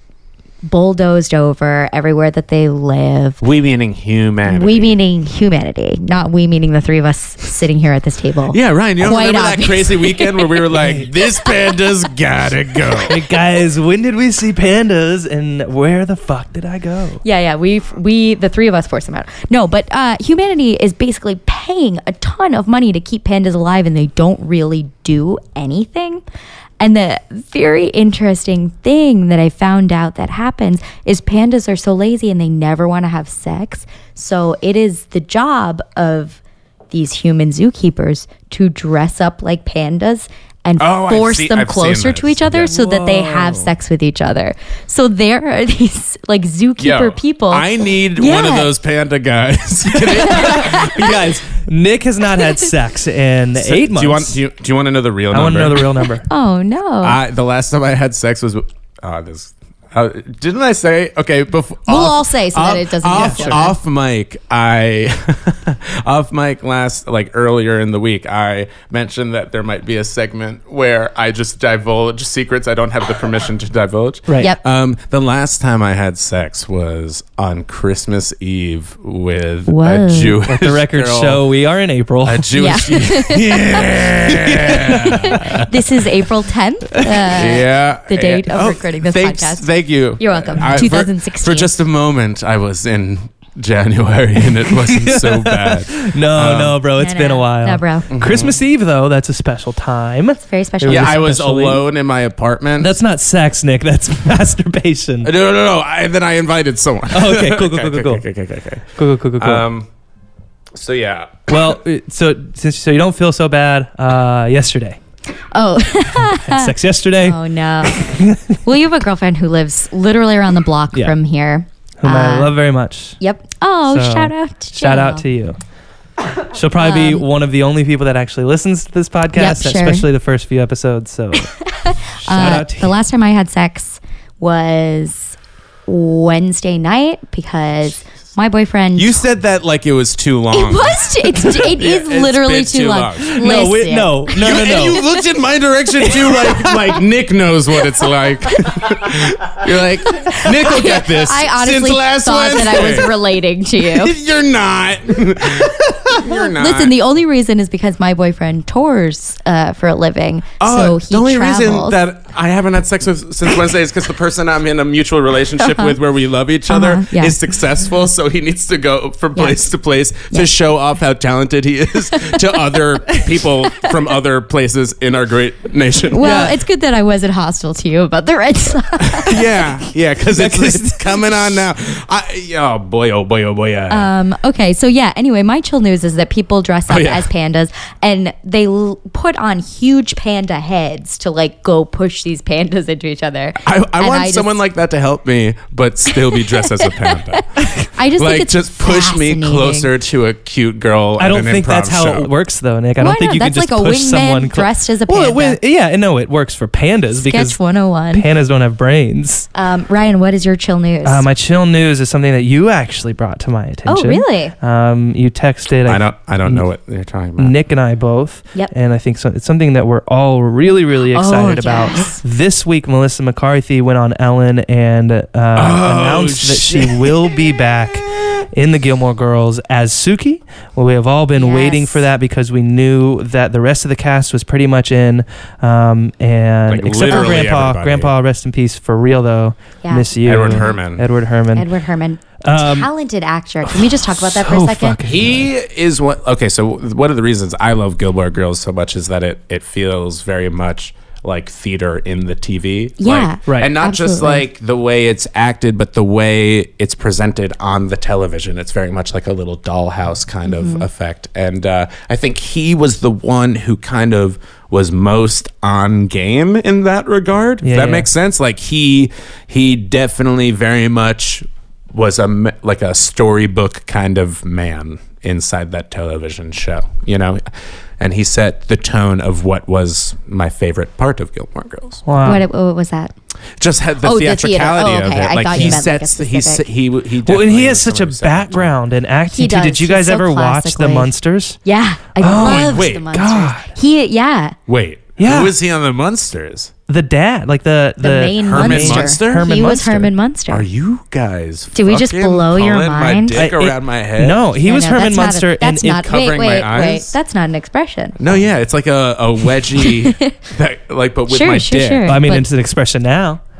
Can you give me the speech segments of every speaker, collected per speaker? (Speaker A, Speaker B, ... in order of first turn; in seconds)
Speaker A: 0.6-3.4, 4.5-10.6, 11.5-11.7, 17.2-26.2, 26.8-48.7, 50.0-51.3, 52.4-52.7, 56.3-57.2, 61.9-63.8, 79.7-80.4, 82.5-89.6, 90.2-91.7, 97.0-98.1, 100.4-101.2, 115.5-122.5, 123.2-125.2, 126.8-127.2, 129.3-130.1, 131.6-135.3, 135.9-139.2, 140.5-145.2, 146.0-146.7, 150.0-154.1, 156.2-162.0, 165.6-165.9, 166.7-167.4, 169.3-169.6, 176.1-179.7, 183.9-194.6, 196.1-199.9, 203.0-205.6, 207.1-208.3, 209.5-211.2, 213.9-214.5, 221.1-222.2, 231.4-232.1, 239.8-240.8, 241.5-245.0, 253.0-254.4, 260.4-260.9, 282.2-283.1, 284.0-286.6, 289.3-291.1, 291.6-294.6, 298.0-300.6, 301.7-303.4, 304.6-308.2, 309.7-310.4, 311.3-312.4
Speaker B: 3.4-5.0, 8.5-13.2, 40.8-42.7, 46.8-51.1, 53.5-56.0, 57.0-81.4, 82.2-85.7, 87.3-96.8, 98.1-98.6, 100.9-102.9, 105.2-108.9, 109.4-109.9, 110.7-111.7, 138.9-143.5, 144.3-153.2, 153.8-156.9, 160.6-176.5, 179.0-184.1, 186.9-187.3, 193.6-202.3, 215.8-217.5, 225.6-227.3, 236.7-238.1, 240.2-241.1, 245.0-277.4, 278.0-282.1, 283.6-288.7, 292.2-293.6, 294.7-296.7, 298.4-299.5, 300.5-304.4, 306.0-307.2, 308.2-312.1
Speaker C: 10.7-11.1, 12.9-17.2, 42.6-43.7, 50.0-54.4, 55.3-56.2, 63.1-63.6, 80.4-82.5, 84.3-85.7, 87.0-87.2, 94.5-101.8, 102.8-105.3, 107.1-108.2, 108.9-109.6, 111.5-115.0, 116.1-118.6, 122.0-123.2, 123.9-125.6, 126.5-131.6, 132.2-132.9, 143.3-145.0, 176.2-176.6, 180.3-181.6, 201.2-207.6, 208.1-209.5, 211.0-216.6, 217.4-241.7, 242.4-242.9, 244.1-245.5, 253.5-253.7, 267.6-268.1, 282.1-282.4, 287.2-291.6, 292.2-293.7, 295.2-295.5, 296.9-300.1, 303.3-306.2, 312.1-313.4